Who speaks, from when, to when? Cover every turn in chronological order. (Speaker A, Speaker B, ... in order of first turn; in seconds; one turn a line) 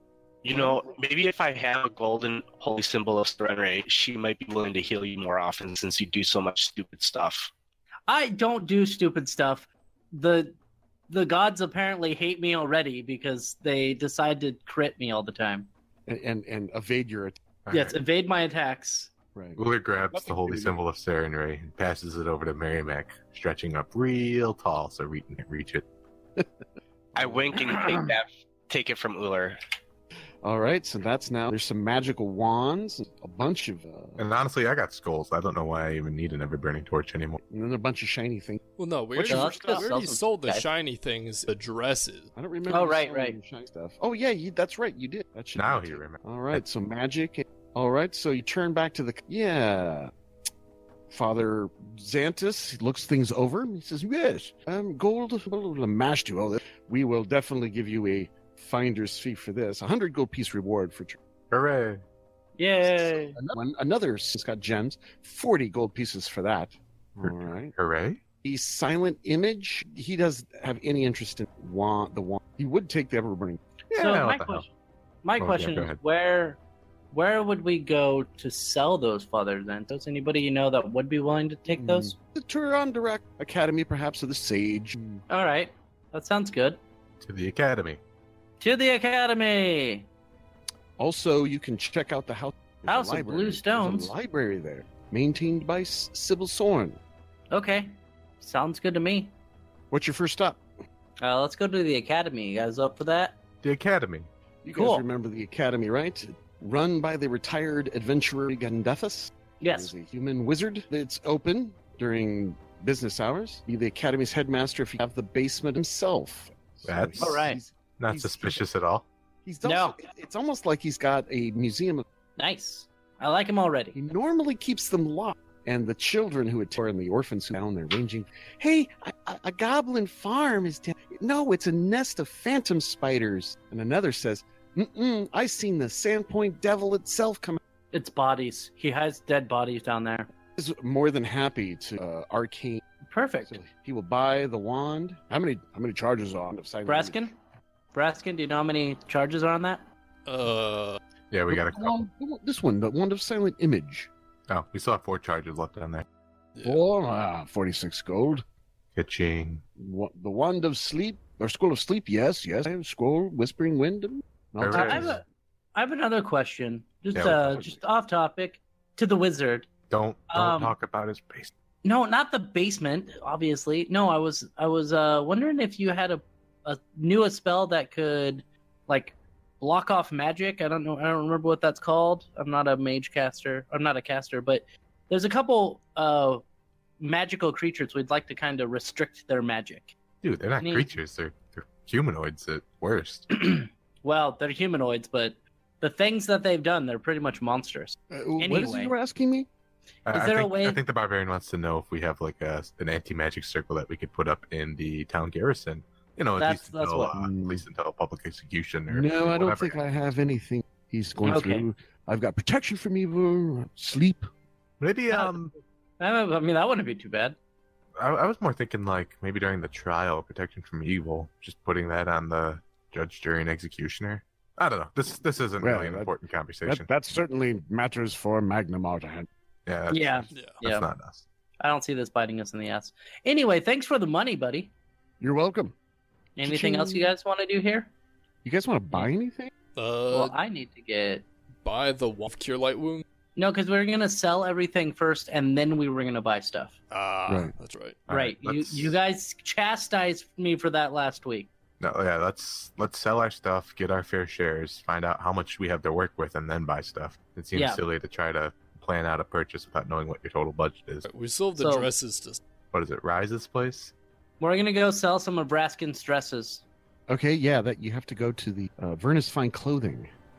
Speaker A: 0.4-7.5
Speaker B: 8.1-10.5
Speaker B: 11.1-15.7
Speaker C: 16.1-17.4
Speaker D: 17.7-18.0
Speaker B: 17.7-19.1
Speaker C: 19.3-20.8
Speaker D: 19.6-25.8
Speaker A: 27.1-29.6
Speaker C: 27.2-28.1
Speaker C: 30.4-34.2
Speaker D: 34.2-37.4
Speaker C: 37.5-38.6
Speaker E: 38.8-42.3
Speaker C: 39.1-39.9
Speaker B: 39.2-40.7
Speaker C: 42.4-50.1
Speaker B: 42.7-43.4
Speaker D: 45.5-46.6
Speaker C: 51.1-61.2
Speaker D: 61.5-62.0
Speaker B: 62.6-63.4
Speaker C: 62.8-67.7
Speaker D: 67.2-68.2
Speaker C: 68.4-73.6
Speaker D: 73.9-74.6
Speaker B: 73.9-74.7
Speaker B: 75.2-76.6
Speaker D: 75.4-76.0
Speaker B: 77.1-82.1
Speaker C: 81.7-85.2
Speaker B: 85.3-86.8
Speaker D: 87.2-88.0
Speaker B: 88.6-90.1
Speaker C: 91.0-97.0
Speaker B: 92.9-94.1
Speaker B: 97.5-99.3
Speaker C: 99.9-100.6
Speaker B: 101.2-103.3
Speaker D: 103.6-104.3
Speaker C: 104.6-118.6
Speaker B: 104.7-105.0
Speaker B: 109.6-109.9
Speaker D: 116.8-117.4
Speaker B: 117.2-117.6
Speaker D: 118.0-119.1
Speaker C: 119.4-122.0
Speaker B: 119.6-120.0
Speaker B: 122.4-124.0
Speaker C: 123.9-137.6
Speaker B: 137.9-140.3
Speaker C: 140.6-142.8
Speaker B: 143.0-143.6
Speaker C: 143.4-147.3
Speaker B: 146.8-147.3
Speaker B: 147.9-149.8
Speaker E: 150.2-151.0
Speaker D: 151.3-152.0
Speaker C: 151.5-154.1
Speaker D: 154.5-156.0
Speaker E: 156.6-156.8
Speaker C: 156.6-158.4
Speaker D: 158.9-159.6
Speaker C: 159.8-165.2
Speaker D: 164.6-165.1
Speaker B: 164.7-165.2
Speaker B: 165.7-169.7
Speaker D: 167.1-167.6
Speaker C: 167.3-167.8
Speaker D: 169.9-171.5
Speaker B: 170.3-170.7
Speaker B: 171.8-186.4
Speaker B: 187.0-189.9
Speaker D: 190.2-193.3
Speaker B: 190.6-190.9
Speaker B: 193.3-198.9
Speaker C: 198.1-199.5
Speaker D: 200.1-209.8
Speaker B: 200.1-200.8
Speaker B: 206.4-207.1
Speaker C: 207.1-207.7
Speaker C: 208.9-214.3
Speaker B: 211.2-211.7
Speaker D: 214.8-215.5
Speaker B: 215.1-215.3
Speaker B: 216.0-217.3
Speaker D: 218.0-226.9
Speaker C: 225.6-226.1
Speaker C: 226.6-229.3
Speaker D: 229.7-231.2
Speaker B: 229.9-230.9
Speaker E: 230.3-230.6
Speaker B: 231.6-234.7
Speaker C: 235.2-235.7
Speaker B: 236.4-237.9
Speaker C: 236.4-237.1
Speaker C: 238.4-239.5
Speaker E: 239.8-240.3
Speaker B: 240.1-241.2
Speaker E: 241.6-243.0
Speaker B: 243.3-246.8
Speaker E: 246.9-248.0
Speaker C: 247.3-247.5
Speaker D: 248.1-249.0
Speaker B: 248.1-251.5
Speaker D: 251.8-261.1
Speaker B: 257.5-257.8
Speaker E: 261.1-262.4
Speaker B: 261.6-261.9
Speaker D: 262.7-263.9
Speaker B: 264.4-266.6
Speaker C: 267.1-270.1